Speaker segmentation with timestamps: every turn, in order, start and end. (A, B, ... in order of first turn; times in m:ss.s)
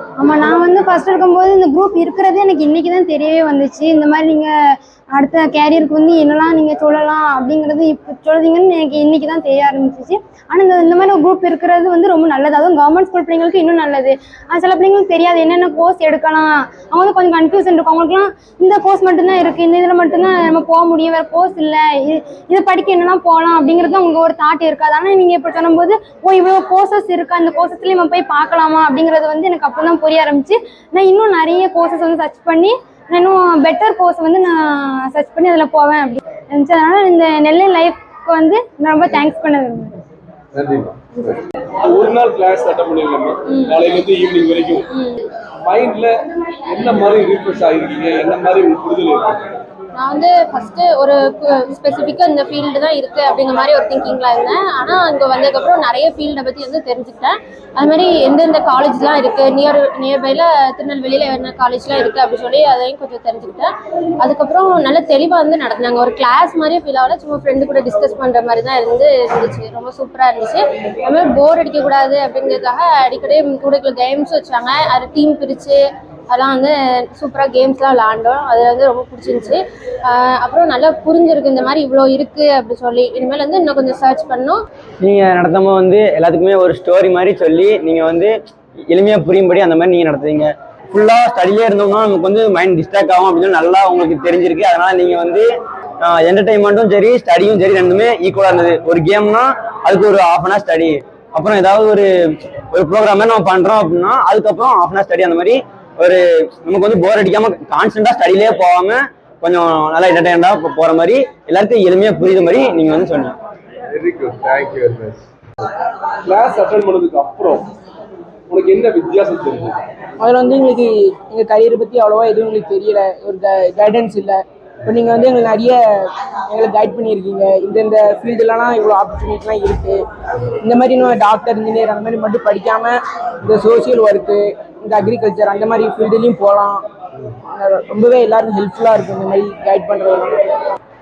0:00.2-0:40.0 A
0:40.5-0:44.9 B
0:43.5-0:43.8 C
0:44.9-0:45.2 C
0:45.6-0:49.4 B
0:50.0-1:24.6 C
1:25.0-1:28.3 D
1:28.9-1:35.5 D
1:36.0-1:42.1 D
1:42.7-1:53.4 D
1:53.9-1:55.2 B
1:56.2-1:57.7 B
1:58.5-1:59.8 B
2:00.2-2:05.8 E
2:06.5-2:10.0 E
2:10.7-2:13.0 E
2:13.5-2:16.8 E
2:17.6-2:20.3 E